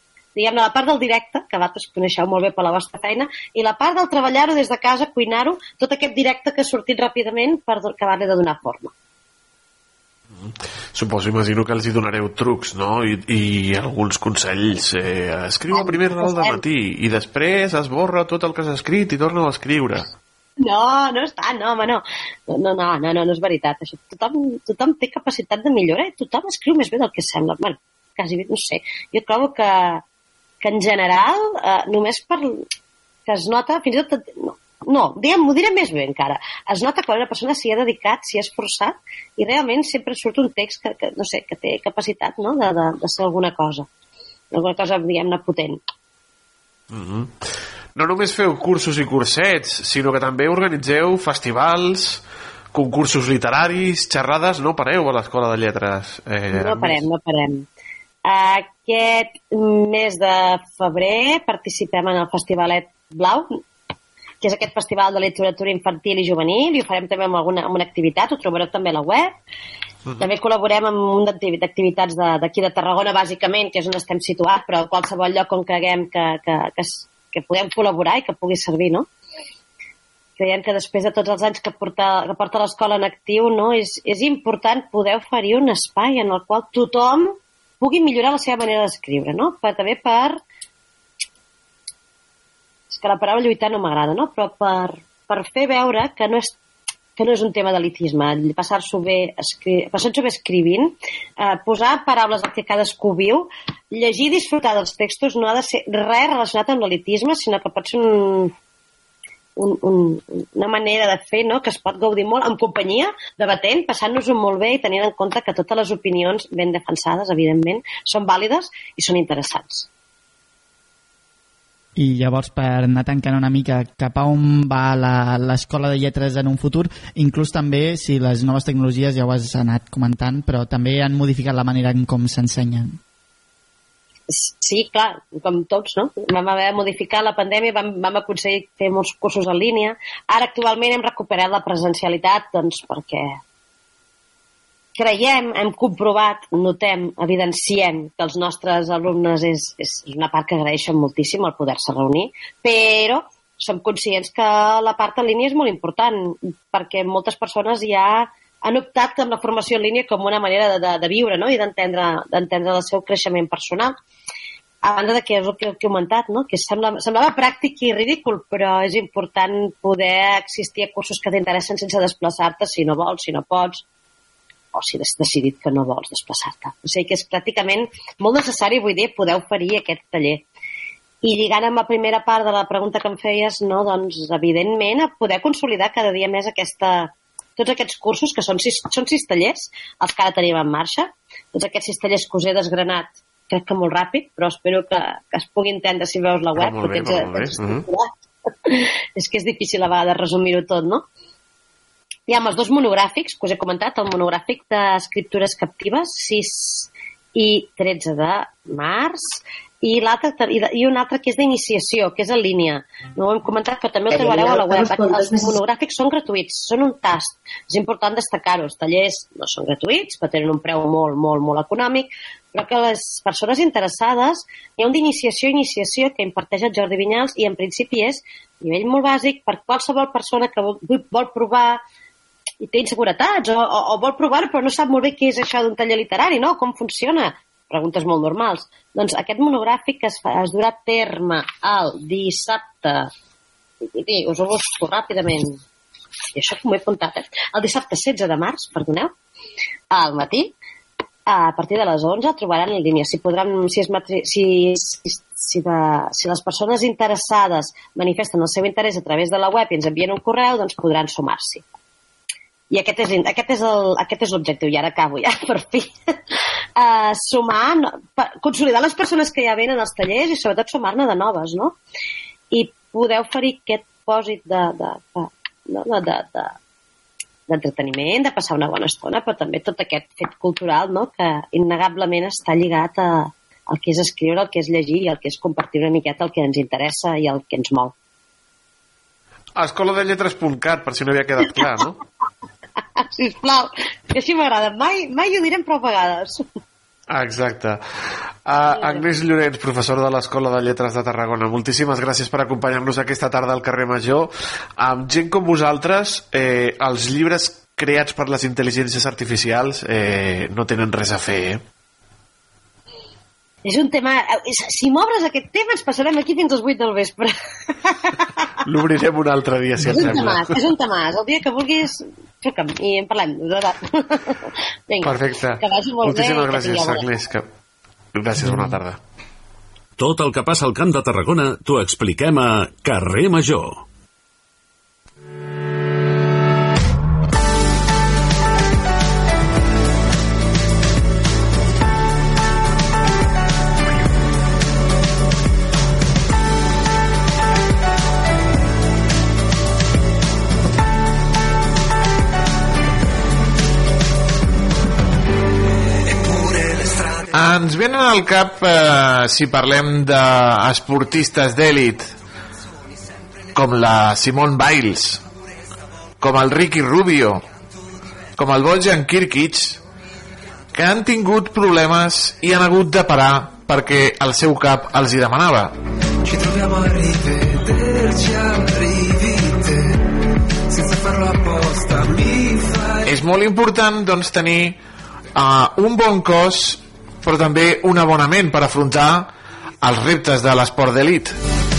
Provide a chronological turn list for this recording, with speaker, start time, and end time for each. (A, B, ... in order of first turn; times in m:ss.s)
0:00.4-0:08.9 A
0:10.4-0:20.1 B
0:15.7-0:16.6 A
0:20.6-0:30.0 A
0:30.6-0:32.6 A
0:33.3-0:43.9 A
0:44.5-0:45.8 A
0:46.9-0:47.3 B
0:47.9-0:52.2 B
0:52.7-0:57.1 B
0:56.5-0:57.7 A
0:58.2-1:03.6 A
1:04.4-1:09.3 A
1:10.2-1:19.1 A
1:20.4-1:30.4 A
1:32.9-1:36.6 A
1:37.2-1:48.5 A
1:49.6-1:59.9 A
2:02.0-2:13.0 C
2:14.3-2:23.4 A
2:25.0-2:43.9 A
2:44.8-2:53.8 A
2:54.7-3:00.4 A
3:01.2-3:18.1 A
3:16.5-3:17.8 B
3:18.7-3:21.0 A
3:22.3-3:51.8 A
3:52.6-4:03.1 A
4:03.9-4:05.6 A
4:06.3-4:09.1 A
4:09.9-4:10.5 A
4:11.3-4:21.6 A
4:22.7-4:25.9 A
4:26.8-4:31.8 A
4:32.5-4:36.5 A
4:37.5-4:47.9 A
4:49.6-4:52.0 B
4:53.0-4:56.4 A
4:57.1-4:57.8 B
4:58.4-5:11.6 B
4:58.7-4:59.1 A
5:13.6-5:17.9 A
5:18.6-5:20.6 B
5:19.8-5:24.3 A
5:24.9-5:27.1 A
5:25.0-5:27.4 B
5:28.1-5:29.0 B
5:30.0-5:33.8 D
5:57.3-6:02.0 E
6:03.5-6:05.1 E
6:06.2-6:07.4 E
6:08.4-6:09.8 E
6:10.7-6:15.7 E
6:16.3-6:19.9 F
6:20.7-6:23.0 F
6:23.0-6:24.8 E
6:25.3-6:29.3 E
6:29.8-6:31.3 E